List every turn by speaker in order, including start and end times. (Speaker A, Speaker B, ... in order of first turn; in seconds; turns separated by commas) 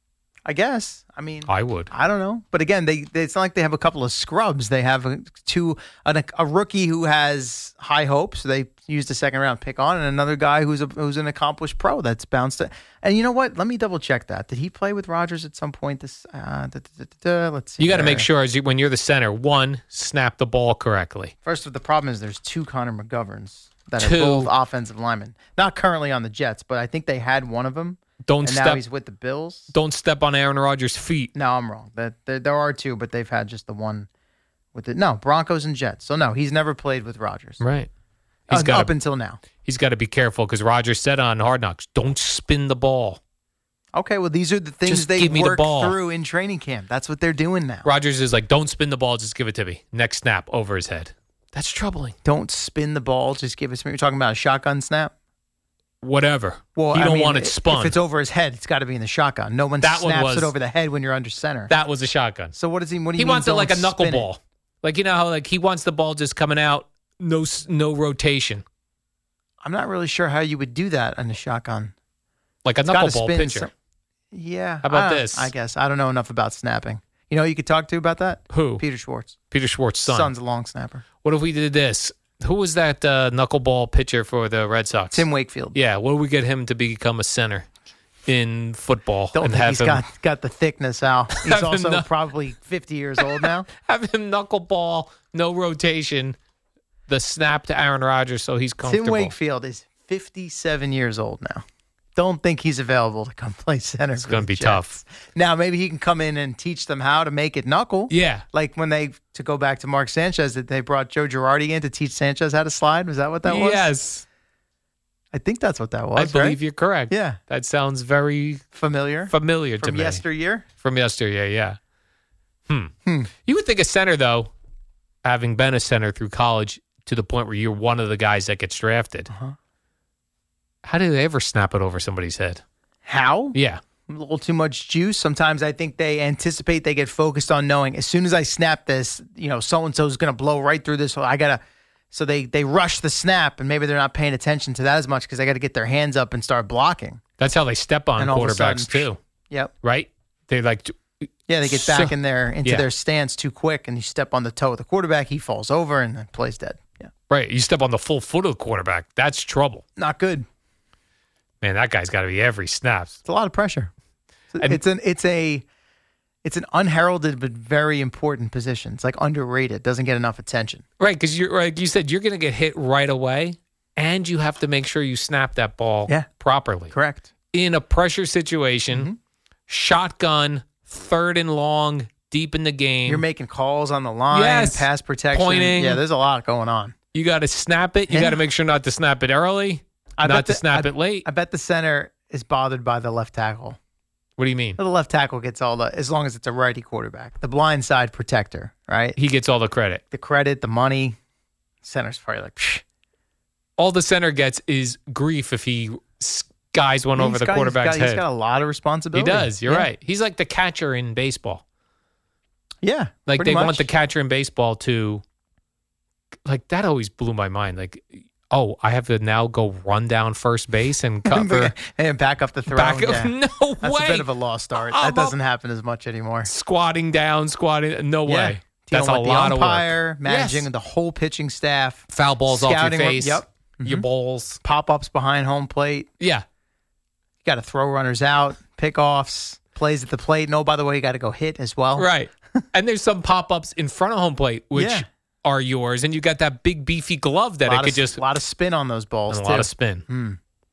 Speaker A: 0.4-18.3, Speaker B: 1.4-1.9, Speaker B: 17.8-21.3, Speaker A: 21.4-29.7, Speaker B: 24.0-24.5, Speaker B: 28.3-28.8, Speaker B: 29.7-31.3, Speaker A: 31.3-34.1, Speaker A: 34.7-37.6, Speaker B: 37.6-37.9, Speaker B: 38.5-39.0, Speaker A: 38.5-39.4, Speaker B: 39.6-43.2, Speaker A: 43.9-47.9, Speaker B: 44.9-46.0, Speaker B: 47.8-52.1, Speaker A: 52.2-55.1, Speaker B: 56.0-58.0, Speaker A: 56.7-61.7, Speaker B: 59.8-60.5, Speaker B: 61.7-62.5, Speaker A: 62.5-64.3, Speaker B: 63.1-68.6, Speaker A: 69.6-71.9, Speaker B: 72.6-73.7, Speaker A: 72.9-73.7, Speaker A: 74.3-79.3, Speaker B: 74.8-75.5, Speaker B: 78.5-78.8, Speaker B: 79.5-80.3, Speaker A: 80.0-81.0, Speaker B: 81.2-87.7, Speaker A: 85.1-85.8, Speaker B: 88.3-90.0, Speaker A: 89.3-93.7, Speaker B: 91.3-92.1, Speaker B: 93.2-96.3, Speaker B: 97.1-99.3, Speaker A: 98.8-101.6, Speaker A: 102.2-113.9, Speaker B: 104.2-105.0, Speaker B: 108.1-108.4, Speaker B: 113.4-114.2, Speaker A: 115.3-117.4, Speaker B: 116.2-118.6, Speaker A: 118.7-120.6, Speaker B: 119.3-120.2, Speaker B: 120.8-121.8, Speaker A: 123.0-123.3, Speaker B: 123.4-124.5, Speaker B: 125.2-129.3, Speaker A: 129.3-129.5, Speaker B: 130.8-132.6, Speaker A: 133.0-133.6, Speaker B: 133.5-133.8, Speaker A: 134.1-147.2, Speaker B: 147.4-149.2, Speaker A: 148.2-149.7, Speaker B: 149.8-152.9, Speaker A: 151.5-157.1, Speaker B: 157.3-159.8, Speaker A: 159.9-160.4, Speaker B: 161.6-163.2, Speaker A: 163.2-163.9, Speaker A: 164.5-165.7, Speaker A: 166.4-170.8, Speaker B: 171.0-176.9, Speaker A: 176.1-177.3, Speaker B: 177.5-179.1, Speaker A: 178.9-179.2, Speaker B: 179.7-183.2, Speaker A: 183.0-186.9, Speaker B: 184.3-186.0, Speaker B: 187.1-191.2, Speaker A: 188.1-188.4, Speaker A: 190.2-193.8, Speaker B: 194.4-194.8, Speaker A: 194.8-199.2, Speaker B: 199.2-200.0, Speaker A: 200.1-201.2, Speaker A: 201.8-202.8, Speaker B: 203.8-208.2, Speaker A: 207.1-209.9, Speaker B: 209.1-211.6, Speaker A: 212.8-213.9, Speaker B: 213.3-215.2, Speaker B: 216.4-221.8, Speaker A: 221.2-226.5, Speaker B: 222.7-225.3, Speaker B: 226.4-230.7, Speaker A: 228.2-234.1, Speaker B: 232.1-234.6, Speaker A: 234.6-236.1, Speaker B: 236.2-236.4, Speaker A: 237.4-242.1, Speaker B: 241.9-248.4, Speaker A: 244.7-245.0, Speaker A: 247.6-250.4, Speaker B: 249.3-250.1